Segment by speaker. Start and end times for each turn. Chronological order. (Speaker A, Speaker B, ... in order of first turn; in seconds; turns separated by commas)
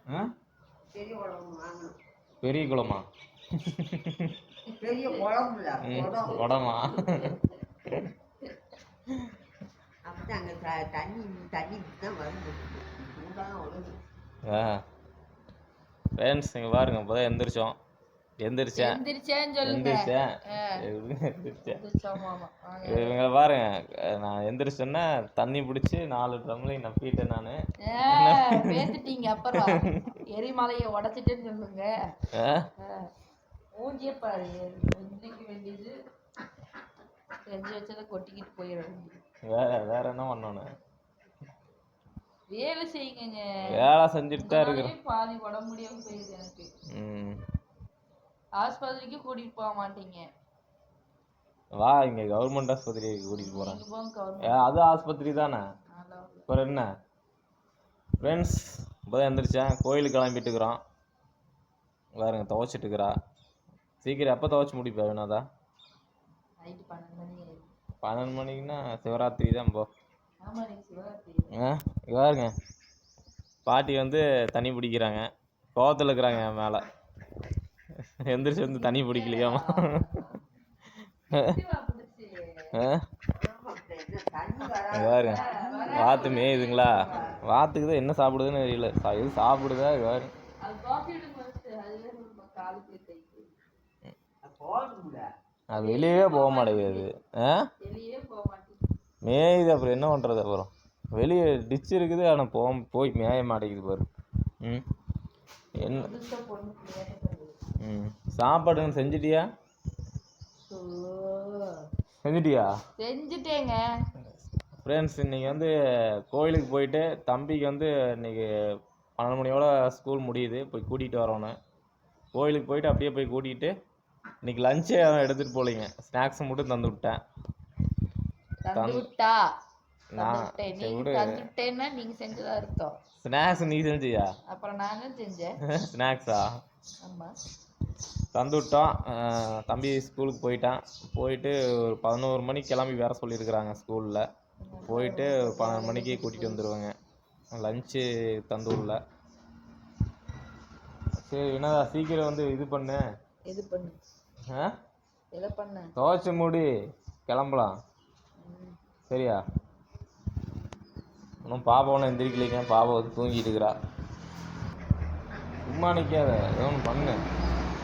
Speaker A: 0.9-2.0, Speaker B: 2.4-3.0, Speaker B: 3.6-4.3, Speaker C: 4.7-5.2, Speaker A: 4.8-6.5, Speaker B: 5.8-7.4, Speaker C: 6.9-7.6, Speaker A: 10.1-14.0, Speaker B: 14.5-14.8, Speaker B: 16.2-17.8, Speaker B: 18.4-19.0, Speaker C: 18.8-20.8, Speaker B: 19.6-21.8, Speaker C: 21.7-23.2, Speaker B: 22.8-27.6, Speaker C: 27.8-31.9, Speaker B: 28.1-29.0, Speaker B: 29.5-30.2, Speaker B: 32.4-32.7, Speaker C: 32.8-33.1, Speaker C: 33.8-36.0, Speaker C: 37.5-39.2, Speaker B: 39.5-40.7, Speaker C: 42.5-46.7, Speaker B: 43.6-44.9, Speaker B: 46.9-47.4, Speaker C: 48.6-50.3, Speaker B: 51.8-53.8, Speaker C: 53.4-54.7, Speaker B: 54.4-55.6, Speaker C: 55.9-56.5, Speaker B: 56.5-56.9, Speaker B: 58.2-60.8, Speaker B: 62.2-63.1, Speaker B: 64.0-65.4, Speaker C: 66.6-67.7, Speaker B: 68.0-69.9, Speaker C: 70.4-71.5, Speaker B: 71.5-72.5, Speaker B: 73.7-76.8, Speaker B: 78.2-80.2, Speaker C: 78.4-80.4, Speaker B: 81.3-81.6, Speaker C: 81.3-82.7, Speaker B: 82.7-83.0, Speaker A: 83.4-87.4, Speaker B: 84.9-85.4, Speaker C: 85.2-87.2, Speaker B: 85.9-90.3, Speaker C: 90.6-93.5, Speaker A: 94.4-95.3, Speaker B: 95.7-97.7, Speaker C: 95.7-97.1, Speaker C: 97.8-98.9, Speaker B: 99.2-104.1, Speaker B: 105.8-106.1, Speaker C: 105.8-107.5, Speaker B: 107.8-109.5, Speaker C: 110.7-111.8, Speaker B: 112.2-112.7, Speaker C: 113.0-113.8, Speaker B: 114.8-115.7, Speaker B: 116.3-118.5, Speaker B: 119.2-121.5, Speaker B: 122.3-123.7, Speaker B: 124.4-127.2, Speaker C: 128.7-129.5, Speaker B: 128.7-129.0, Speaker B: 130.1-131.5, Speaker C: 130.2-133.0, Speaker B: 133.2-134.3, Speaker C: 134.5-135.6, Speaker B: 135.7-136.5, Speaker C: 137.0-137.3, Speaker B: 138.3-144.2, Speaker C: 144.6-146.6, Speaker B: 144.9-146.9, Speaker B: 147.5-149.0, Speaker B: 151.2-153.0, Speaker C: 153.5-154.0, Speaker C: 155.3-155.9, Speaker B: 156.0-156.7, Speaker B: 157.3-157.7, Speaker C: 158.4-158.8, Speaker B: 159.1-159.4, Speaker B: 161.4-163.8, Speaker B: 165.7-167.2